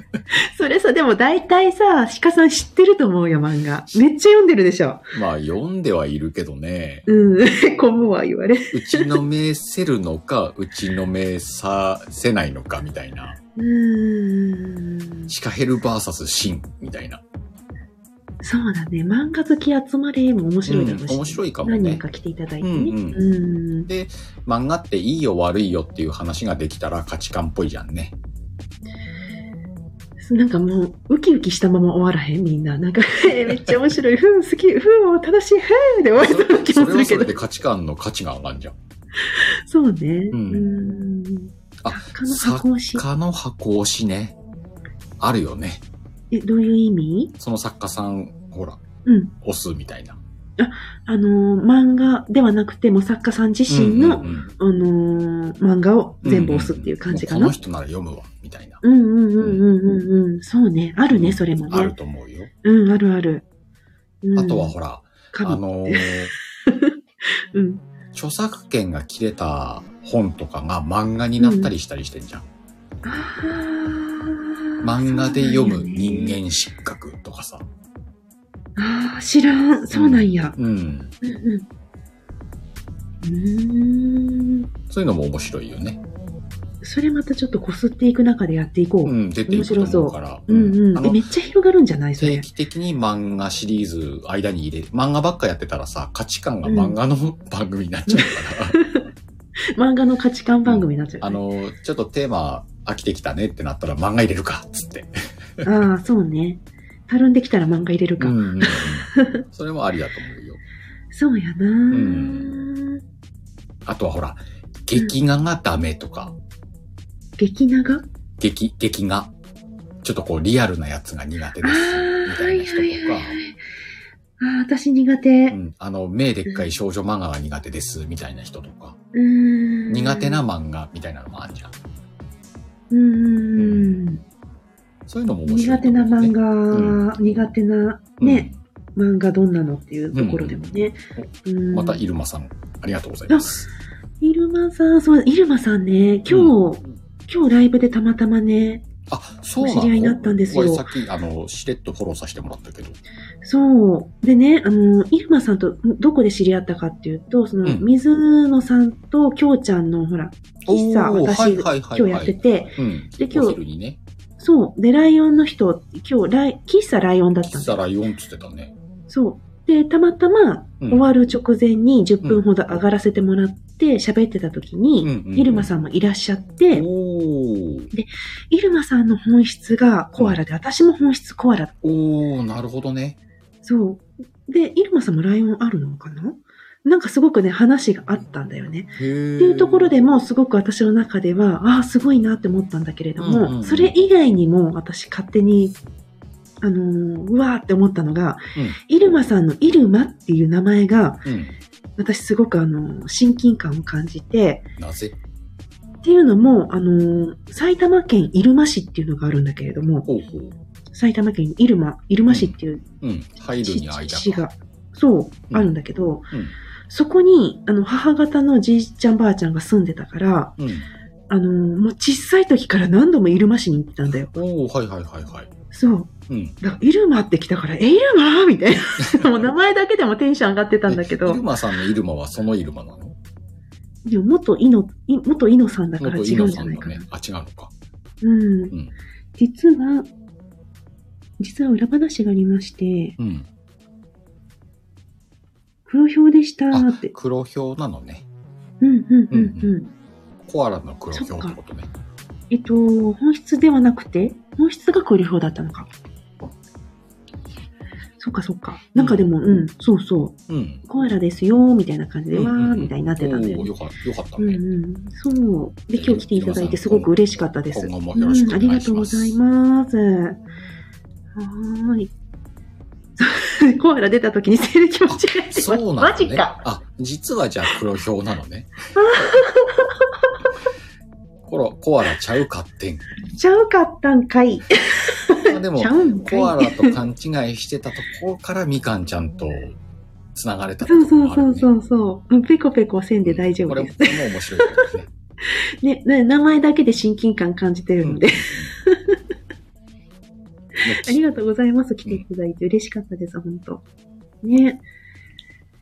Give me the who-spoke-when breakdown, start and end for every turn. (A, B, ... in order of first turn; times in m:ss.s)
0:00.3-0:05.0 A
0:05.1-0:07.0 B
0:07.1-0:09.2 A
0:08.7-0:13.4 B
0:13.6-0:15.3 A
0:15.3-0:17.2 B
0:18.4-0:23.9 A
0:20.6-0:22.0 B
0:22.6-0:23.2 B
0:23.9-0:28.1 B
0:30.2-0:37.3 A
0:36.2-0:38.8 B
0:39.2-0:43.0 A
0:40.3-0:40.6 B
0:41.8-0:44.4 B
0:45.2-0:45.8 B
0:46.3-0:47.3 A
0:47.4-0:48.8 B
0:49.0-0:49.3 A
0:49.4-0:50.2 B
0:50.6-0:57.5 A
0:53.7-0:54.5 B
0:56.2-0:58.8 B
0:58.8-1:01.9 A
1:01.1-1:02.5 B
1:02.6-1:03.4 A
1:04.2-1:04.7 A
1:04.4-1:06.3 B
1:05.3-1:06.9 A
1:07.5-1:07.8 A
1:08.1-1:12.5 B
1:11.4-1:11.7 A
1:13.0-1:16.4 A
1:14.8-1:17.7 B
1:18.8-1:20.5 A
1:19.9-1:21.1 B
1:21.2-1:21.6 A
1:23.2-1:24.7 A
1:24.9-1:26.0 B
1:26.8-1:32.4 A
1:29.0-1:31.2 B
1:32.2-1:38.8 B
1:36.6-1:37.0 A
1:38.1-1:39.1 A
1:39.7-1:41.4 A
1:40.6-1:45.7 B
1:45.6-1:49.4 A
1:48.2-1:50.6 B
1:51.1-1:53.0 A
1:51.9-1:52.5 B
1:53.8-1:56.3 B
1:57.4-1:58.0 A
1:58.4-1:59.3 B
2:00.0-2:03.4 B
2:01.6-2:03.6 A
2:04.4-2:05.6 A
2:05.5-2:09.0 B
2:09.1-2:10.4 A
2:09.9-2:11.7 B
2:12.9-2:14.2 A
2:13.6-2:13.9 B
2:15.1-2:17.1 B
2:15.5-2:22.0 A
2:18.2-2:18.6 B
2:20.1-2:23.7 B
2:24.2-2:28.8 A
2:26.3-2:26.6 B
2:29.1-2:33.0 B
2:29.6-2:30.9 A
2:33.4-2:43.6 A
2:40.7-2:44.0 B
2:44.4-2:47.8 A
2:47.4-2:48.7 B
2:49.1-2:56.8 A
2:50.8-2:51.1 B
2:55.0-2:55.7 B
2:56.7-2:57.9 B
2:57.9-3:01.7 A
3:01.8-3:03.2 B
3:03.6-3:15.8 A
3:09.0-3:09.9 B
3:13.2-3:13.9 B
3:16.6-3:21.2 A
3:21.2-3:21.5 B
3:22.0-3:24.6 A
3:24.8-3:25.1 B
3:26.0-3:30.1 A
3:30.0-3:30.6 B
3:30.9-3:32.8 A
3:32.3-3:34.4 B
3:33.6-3:36.3 A
3:36.9-3:40.5 A
3:40.6-3:40.9 B
3:41.3-3:44.4 A
3:44.0-3:45.5 B
3:45.7-3:51.4 A
3:46.3-3:46.6 B
3:50.9-3:53.2 B
3:54.0-3:57.1 A
3:56.0-3:57.7 B
3:58.2-3:58.7 A
3:59.4-4:00.1 A
4:01.4-4:03.2 A
4:03.2-4:03.5 B
4:05.9-4:07.1 A
4:06.7-4:08.2 B
4:08.8-4:09.9 A
4:09.3-4:09.7 B
4:10.4-4:11.9 B
4:11.1-4:11.6 A
4:12.5-4:15.9 A
4:18.2-4:23.7 A
4:18.9-4:19.3 B
4:20.5-4:20.8 B
4:22.3-4:24.6 B
4:24.4-4:30.4 A
4:25.9-4:29.4 B
4:31.3-4:32.1 A
4:33.2-4:36.6 A
4:35.1-4:38.8 B
4:38.9-4:40.1 A
4:41.4-4:43.0 B
4:43.3-4:46.9 A
4:45.5-4:49.8 B
4:50.3-4:51.7 B
4:50.8-4:54.9 A
4:53.2-4:55.1 B
4:55.4-4:59.2 A
4:58.0-4:58.7 B
5:00.8-5:03.8 A
5:00.8-5:01.2 B
5:04.4-5:04.8 A